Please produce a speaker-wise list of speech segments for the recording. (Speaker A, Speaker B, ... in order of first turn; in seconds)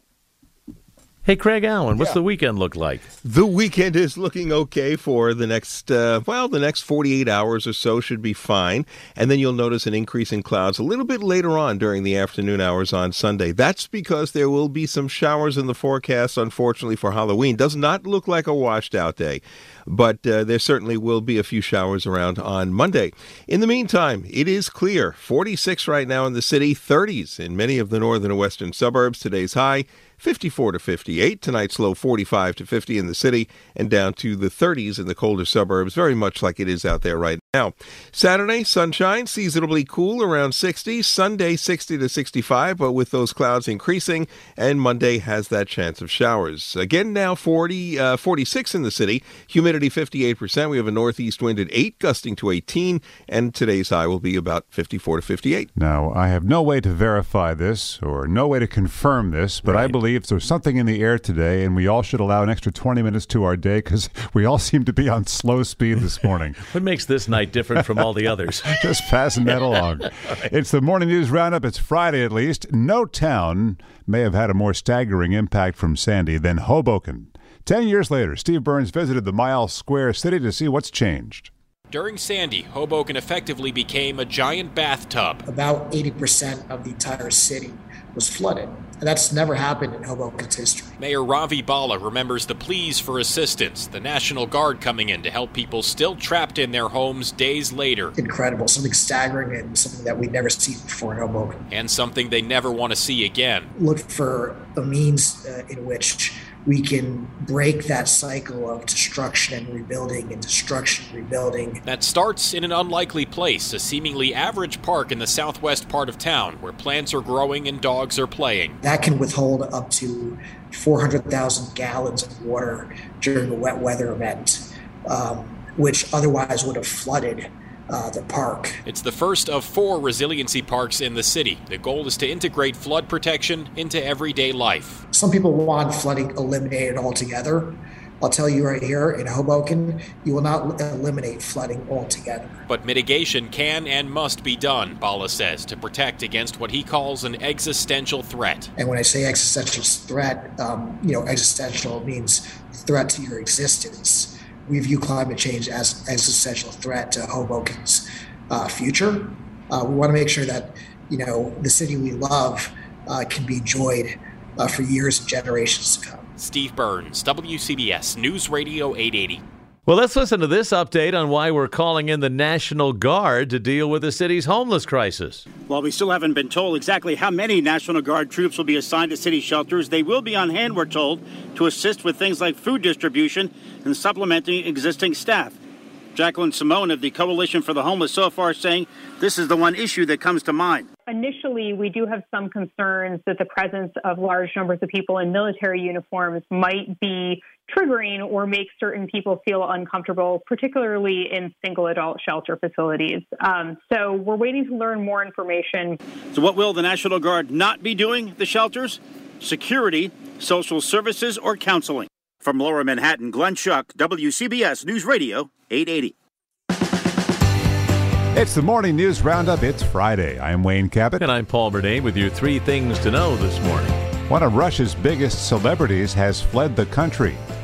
Speaker A: 1.2-3.0, 59.6-59.9, 66.7-68.7, 169.9-175.4, 221.2-224.1
Speaker B: 3.2-55.7
Speaker C: 55.8-66.6, 68.8-81.5, 218.3-221.2, 224.3-227.4
Speaker D: 81.9-85.4, 91.0-98.1, 101.7-103.7, 111.8-118.8, 128.8-135.0, 142.7-148.7, 166.4-169.4
Speaker E: 85.5-90.9, 98.2-101.6, 103.8-111.8, 118.8-128.8, 135.1-142.6, 148.8-166.2
Speaker F: 175.7-185.6, 186.1-190.9, 206.3-216.1
Speaker G: 191.1-206.0